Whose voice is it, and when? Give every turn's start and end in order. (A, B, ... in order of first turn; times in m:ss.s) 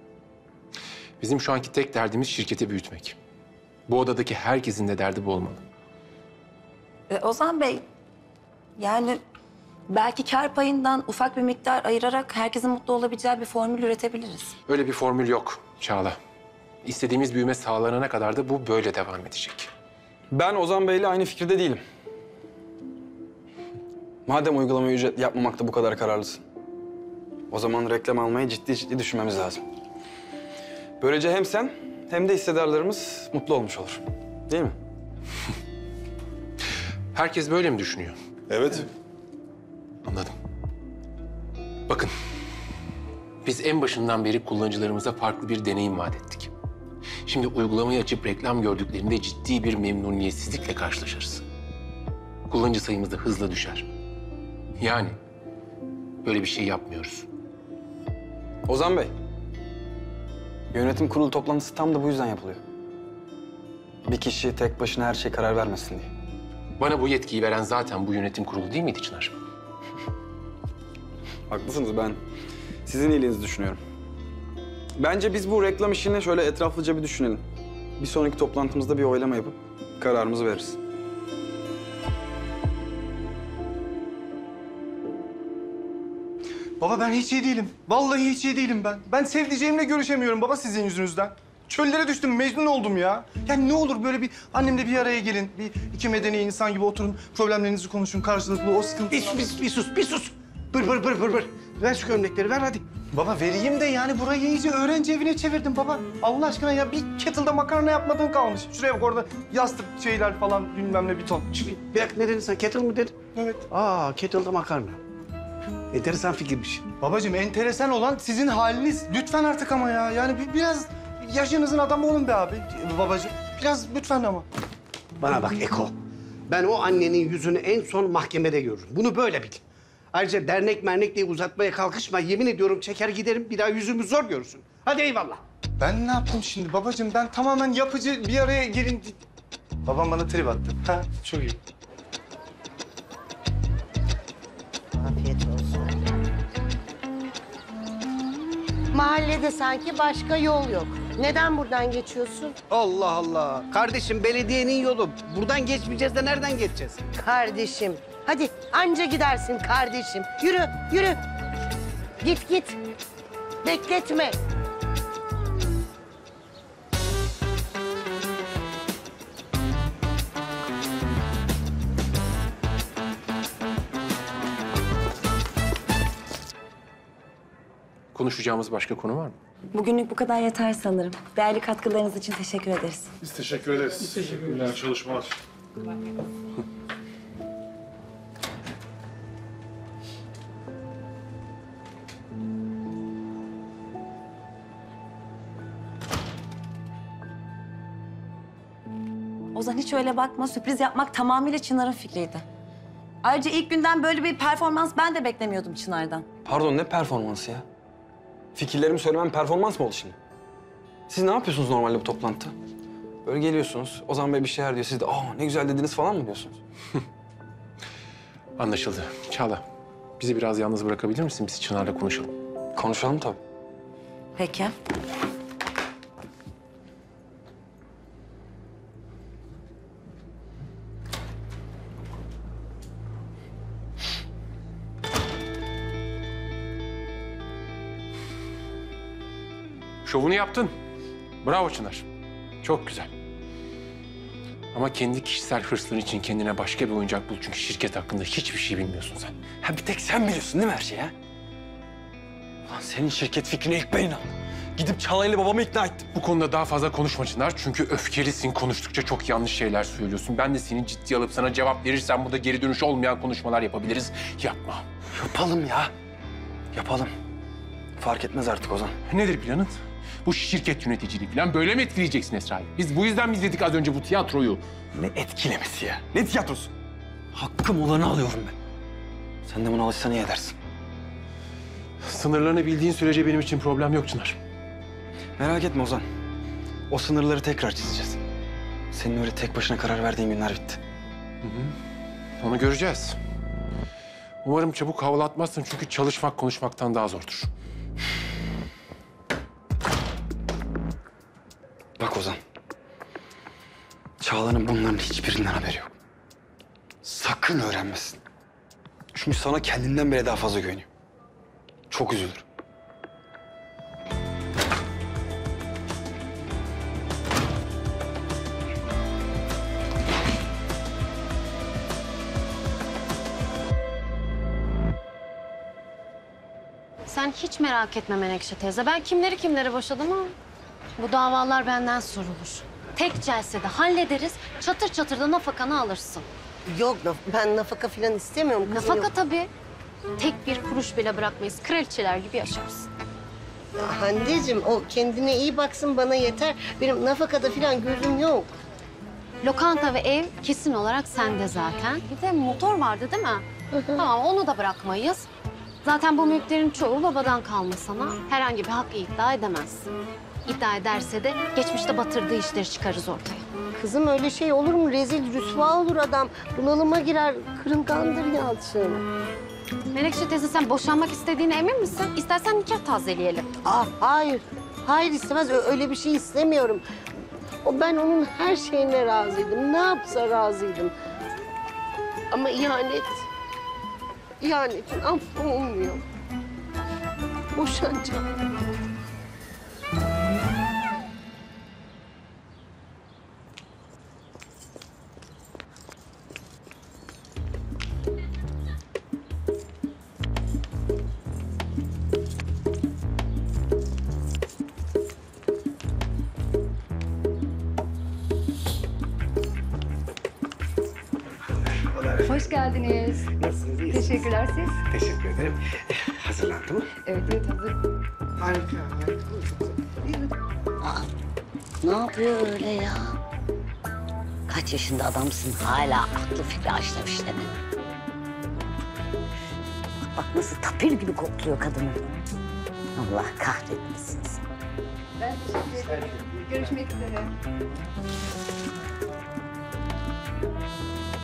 0:01.2-0:03.2 A
0:03.9-0:05.6 A
0:07.1-0:07.8 B
0:08.8-0:09.2 B
0:09.9-0:14.6 B
0:14.7-0:16.2 A
0:16.8-0:19.7 A
0:20.3-0:21.8 C
0:24.3-0:26.4 C
0:27.5-0:29.6 C
0:31.0-0:34.8 C
0:37.1-0:38.2 A
0:38.5-0:38.9 D
0:40.0-0:40.3 A
0:43.4-0:46.5 A
0:47.3-0:51.4 A
0:52.5-0:53.9 A
0:54.8-0:55.2 A
0:56.2-0:57.3 A
0:58.7-0:59.1 C
1:00.7-1:02.6 C
1:04.1-1:06.1 C
1:06.8-1:09.4 A
1:11.5-1:12.2 C
1:12.9-1:13.8 C
1:15.0-1:17.4 C
1:18.0-1:20.8 C
1:26.8-1:39.4 E
1:39.1-1:42.8 F
1:43.1-1:51.5 E
1:51.5-1:53.2 F
1:53.3-1:53.7 E
1:53.7-1:55.0 F
1:55.9-1:56.9 F
1:57.0-2:04.5 E
2:05.2-2:05.9 F
2:06.5-2:15.4 F
2:15.8-2:19.2 E
2:19.9-2:21.5 E
2:25.0-2:26.0 G
2:28.9-2:32.6 G
2:32.7-2:37.1 F
2:37.2-2:41.2 G
2:42.2-2:42.8 G
2:43.6-2:44.4 G
2:58.1-2:59.4 A
2:59.7-3:03.1 B
3:03.4-3:05.3 D
3:19.5-3:22.4 B
3:23.2-3:26.2 B
3:26.4-3:27.6 C
3:28.6-3:30.2 C
3:31.1-3:32.5 C
3:33.2-3:36.6 C
3:38.6-3:39.6 A
3:40.2-3:42.3 A
3:42.8-3:43.4 C
3:44.4-3:44.7 B
4:00.0-4:00.7 A
4:01.4-4:02.0 A
4:02.6-4:03.1 A
4:04.7-4:09.3 A
4:09.6-4:11.1 C
4:12.7-4:16.1 C
4:16.1-4:24.9 A
4:25.1-4:25.9 C
4:26.7-4:27.1 C
4:28.0-4:29.0 C
4:29.1-4:34.6 A
4:34.9-4:36.7 C
4:37.3-4:38.5 C
4:39.5-4:40.6 C
4:42.0-4:44.4 A
4:45.4-4:46.0 C
4:46.9-4:48.2 C
4:48.9-4:50.8 C
4:51.4-4:51.8 A
4:52.4-4:53.2 A
4:54.4-4:57.5 A
5:02.0-5:02.4 C
5:04.2-5:05.9 C
5:07.0-5:08.2 C
5:09.1-5:10.9 C
5:11.9-5:12.4 C
5:27.1-5:30.4 H
5:31.0-5:36.3 H
5:36.7-5:39.1 G
5:38.7-5:39.5 H
5:40.2-5:42.9 H
5:43.8-5:48.5 G
5:49.4-5:55.3 H
5:53.7-5:54.0 G
5:55.8-5:59.9 H
6:00.5-6:03.4 H
6:03.8-6:09.0 G
6:09.9-6:13.5 H
6:13.6-6:16.8 G
6:17.6-6:20.9 G
6:22.3-6:23.2 G
6:24.4-6:26.0 G
6:27.6-6:28.2 G
6:51.8-6:52.5 F
6:52.3-6:53.3 I
6:53.4-6:56.9 F
6:53.9-6:54.8 I
6:57.0-6:57.8 I
6:58.4-6:59.4 F
7:01.8-7:03.1 J
7:04.5-7:07.5 J
7:10.2-7:12.0 J
7:13.0-7:14.4 J
7:15.2-7:17.3 I